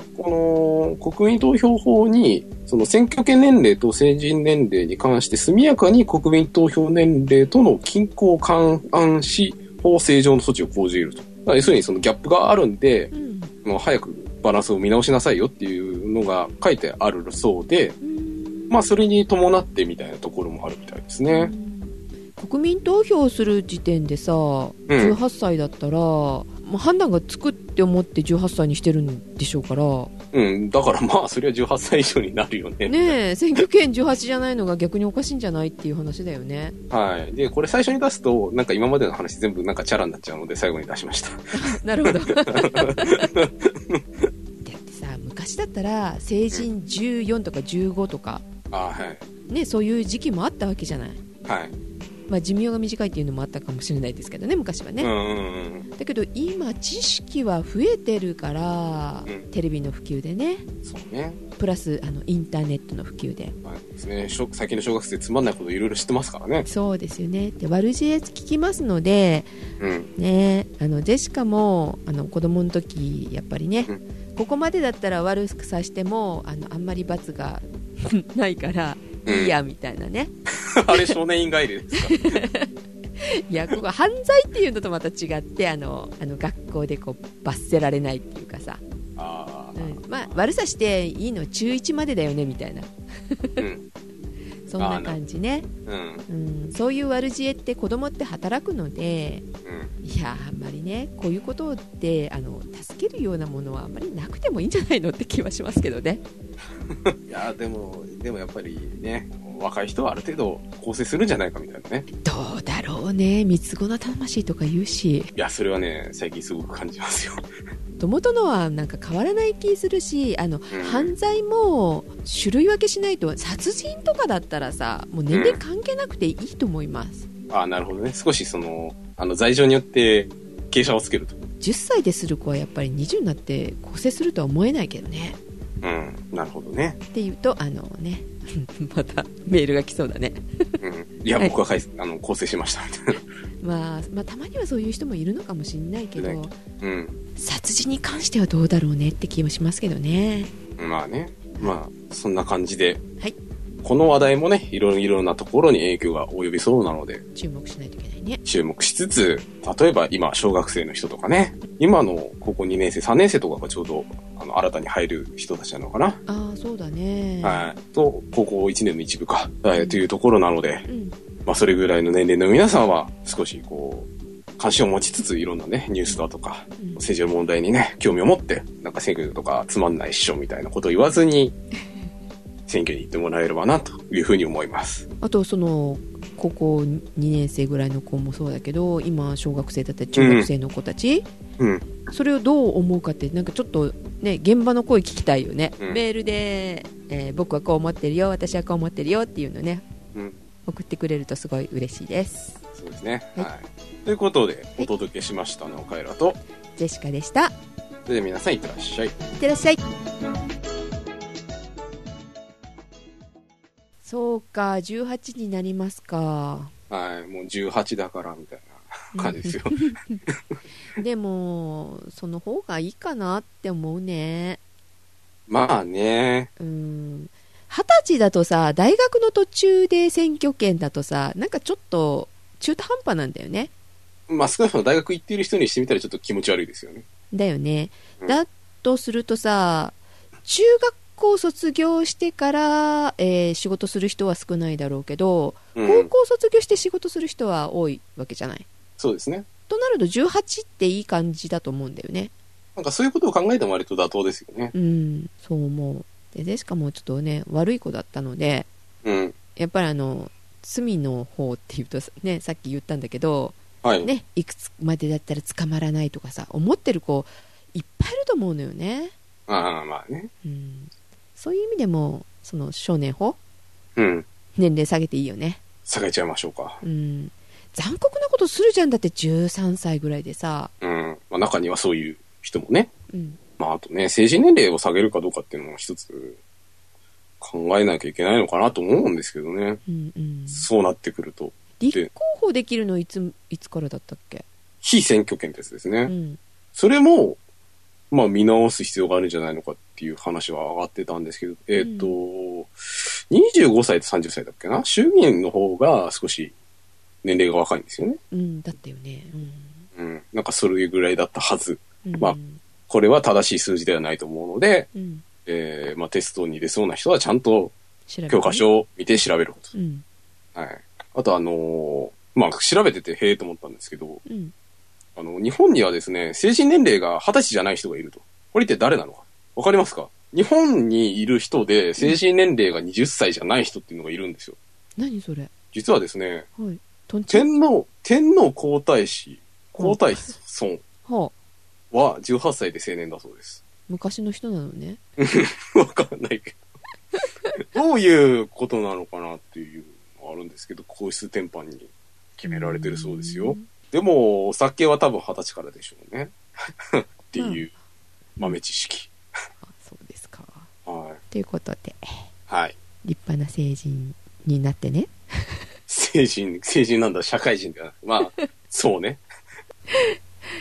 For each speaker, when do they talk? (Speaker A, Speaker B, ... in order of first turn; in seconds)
Speaker A: 0.1-13.1, 13.6-18.0, 18.7-21.5, 24.9-25.2, 30.3-33.6, 36.9-44.3, 48.7-49.2, 51.4-51.7, 55.0-55.9, 60.9-61.4, 63.6-66.7, 69.8-70.1, 79.2-79.5, 80.7-82.4, 89.2-90.4, 93.6-93.8, 94.8-95.2, 95.9-96.2, 99.6-99.9, 107.0-112.1, 115.4-117.5, 120.7-121.1, 125.3-125.6, 127.5-131.4, 135.8-137.0, 140.8-143.2, 146.2-147.2, 150.8-153.0, 153.8-157.2, 158.4-166.2, 167.4-170.9, 171.4-181.6, 182.7-185.1, 190.1-190.5, 191.6-191.9, 202.7-206.4, 208.1-209.1, 216.9-220.6, 225.5-226.5, 234.3-237.1, 245.8-246.1, 249.0-249.5, 252.8-254.7, 259.0-259.4, 263.8-264.1, 269.5-270.3, 273.9-274.3, 275.9-276.8, 280.8-282.9, 283.6-286.4, 287.4-289.8, 290.5-292.1, 294.8-296.1, 296.8-297.4, 298.1-306.5, 307.2-308.2, 309.9-312.4, 312.9-314.9, 315.4-317.8, 318.3-319.7, 320.6-324.2, 325.1-334.6, 335.7-336.5, 337.3-340.8, 341.9-343.6, 345.2-346.6, 347.6-357.7, 358.4-359.1, 360.9-361.2, 362.5-362.8, 365.9-369.2
Speaker B: 13.1-13.5, 18.0-18.8, 21.3-30.1, 32.9-36.8, 41.5-43.3, 44.6-48.4, 49.5-51.2, 52.3-55.1, 56.0-60.6, 61.6-63.5, 66.7-69.5, 70.2-80.3, 80.9-81.1, 81.9-88.8, 89.8-93.6, 94.7-95.7, 96.3-99.4, 100.0-106.2, 112.2-115.3, 118.0-127.3, 131.6-135.4, 137.1-140.8, 143.6-146.6, 147.4-150.5, 157.3-158.4, 166.3-167.7, 169.8-170.0, 170.9-171.2, 185.2-191.3, 192.1-199.9, 200.7-202.6, 206.8-207.5, 209.4-209.8, 214.0-216.7, 219.1-220.2, 220.9-224.6, 226.6-233.7, 237.3-248.7, 249.7-252.3, 254.7-258.7, 259.6-269.1, 270.4-273.4, 274.6-275.6, 276.8-280.7, 283.1-283.4, 289.9-290.7, 291.8-294.4, 296.1-296.4, 301.8-302.1, 308.3-309.9, 312.1-312.6, 314.9-315.2, 318.1-318.6, 319.7-320.1, 324.3-324.5, 335.0-335.5, 336.6-337.5, 339.8-340.4, 341.1-341.3, 343.9-345.0, 352.4-353.7, 357.4-357.7, 359.6-360.7, 361.3-362.3, 363.0-365.6, 368.2-368.5, 369.9-370.1